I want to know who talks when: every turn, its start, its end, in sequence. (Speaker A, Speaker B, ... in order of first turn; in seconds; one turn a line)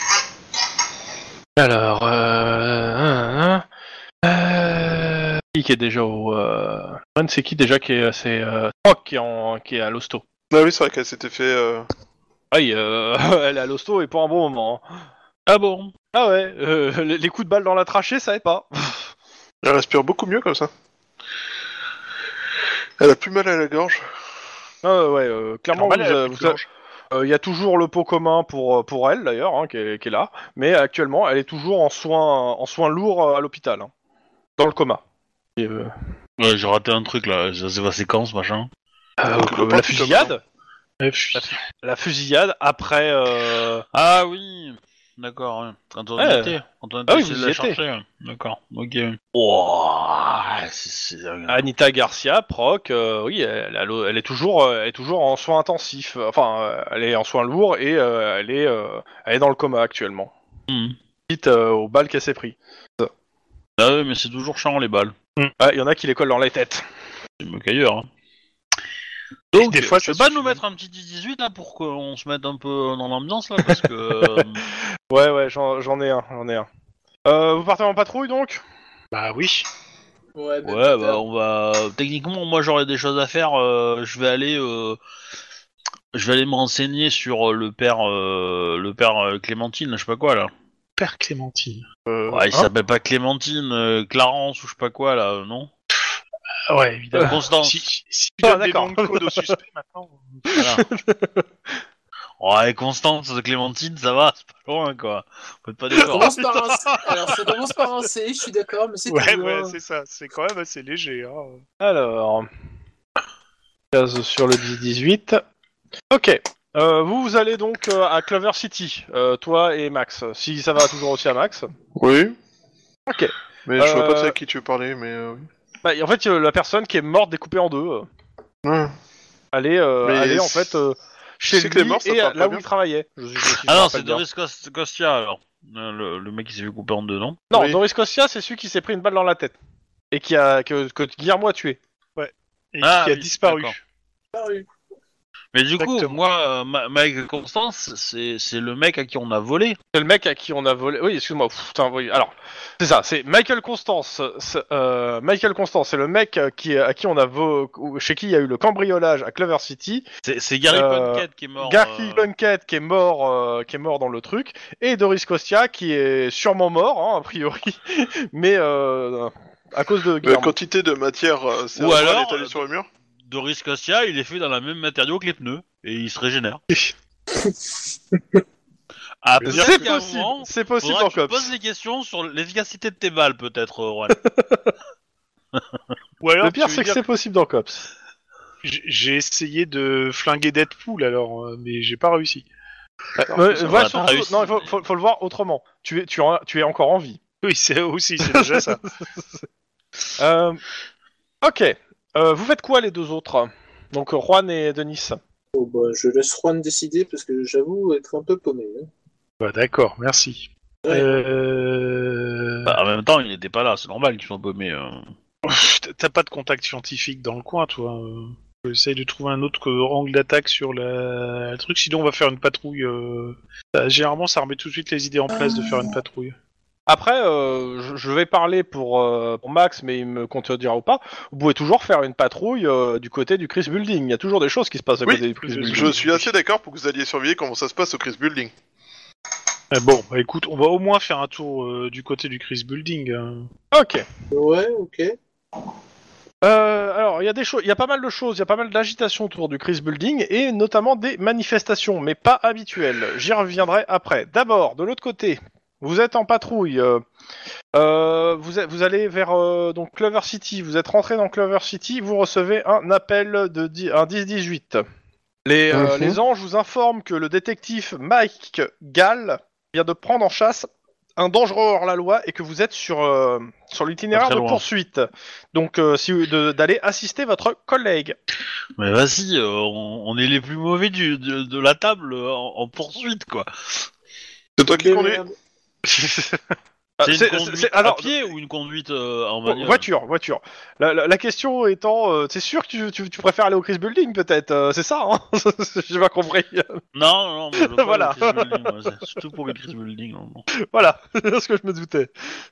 Speaker A: 1.6-3.7
Speaker A: 4.2-10.2
Speaker B: 10.5-11.9
Speaker A: 12.5-14.8
Speaker C: 15.5-15.9
Speaker A: 16.1-19.1
Speaker B: 19.6-20.7
Speaker B: 23.0-24.0
Speaker A: 24.8-26.6
Speaker D: 25.7-26.7
Speaker A: 27.1-33.9
Speaker A: 34.6-35.0
Speaker A: 35.6-35.9
Speaker C: 36.4-38.7
Speaker A: 39.2-40.4
Speaker B: 39.4-40.3
Speaker D: 41.0-41.6
Speaker A: 41.4-43.8
Speaker C: 43.9-51.7
Speaker A: 46.2-46.6
Speaker A: 47.1-47.8
Speaker A: 51.5-60.3
Speaker C: 60.7-61.0
Speaker A: 61.3-63.1
Speaker C: 63.8-65.2
Speaker A: 65.6-66.8
Speaker C: 67.4-68.1
Speaker C: 69.5-74.7
Speaker D: 69.5-70.6
Speaker A: 75.1-76.7
Speaker A: 77.2-78.6
Speaker D: 79.1-79.7
Speaker E: 80.4-81.2
Speaker C: 80.7-85.0
Speaker C: 86.1-90.5
Speaker D: 91.0-91.9
Speaker B: 92.1-92.4
Speaker C: 92.3-95.7
Speaker D: 96.7-100.5
Speaker C: 97.2-97.8
Speaker A: 98.4-99.4
Speaker A: 100.5-101.5
Speaker C: 100.5-100.8
Speaker C: 102.4-106.4
Speaker A: 106.0-107.4
Speaker E: 106.1-109.7
Speaker D: 109.1-111.6
Speaker A: 111.8-112.5
Speaker A: 113.9-115.4
Speaker A: 116.1-121.7
Speaker B: 122.0-122.4
Speaker A: 123.1-124.3
Speaker B: 123.7-125.5
Speaker A: 125.8-128.1
Speaker B: 128.6-128.9
Speaker A: 129.5-134.2
Speaker B: 130.0-130.7
Speaker B: 131.5-132.7
Speaker C: 133.7-137.4
Speaker A: 137.5-139.6
Speaker B: 137.5-137.8
Speaker A: 140.1-141.8
Speaker D: 142.2-143.8
Speaker C: 142.8-143.8
Speaker E: 144.3-144.7
Speaker C: 145.5-149.8
Speaker D: 145.8-146.2
Speaker A: 149.9-160.1
Speaker C: 160.2-162.3
Speaker A: 160.7-170.5
Speaker B: 170.2-172.9
Speaker C: 171.8-172.6
Speaker C: 173.2-176.6
Speaker E: 178.1-178.4
Speaker C: 179.2-184.2
Speaker A: 179.4-181.5
Speaker D: 179.4-179.9
Speaker A: 184.2-184.7
Speaker D: 186.2-187.0
Speaker A: 186.4-187.8
Speaker D: 188.6-192.5
Speaker A: 193.2-197.2
Speaker C: 193.3-194.8
Speaker D: 197.4-198.8
Speaker A: 198.3-198.8
Speaker A: 200.2-200.6
Speaker A: 201.4-205.2
Speaker E: 205.5-208.9
Speaker D: 209.4-212.8
Speaker E: 210.8-211.1
Speaker C: 212.7-215.1
Speaker D: 215.4-226.3
Speaker A: 226.9-236.2
Speaker B: 235.1-238.5
Speaker D: 235.4-236.2
Speaker D: 239.7-243.5
Speaker A: 243.7-244.1
Speaker E: 244.3-245.2
Speaker A: 246.4-257.0
Speaker A: 257.7-264.8
Speaker A: 265.5-278.2
Speaker B: 265.7-266.2
Speaker C: 274.1-274.6
Speaker C: 278.8-283.9
Speaker B: 284.6-285.2
Speaker E: 284.7-285.3
Speaker A: 287.0-288.1
Speaker C: 287.0-289.9
Speaker A: 289.5-296.8
Speaker C: 296.9-300.4
Speaker A: 297.6-298.9
Speaker A: 300.6-302.1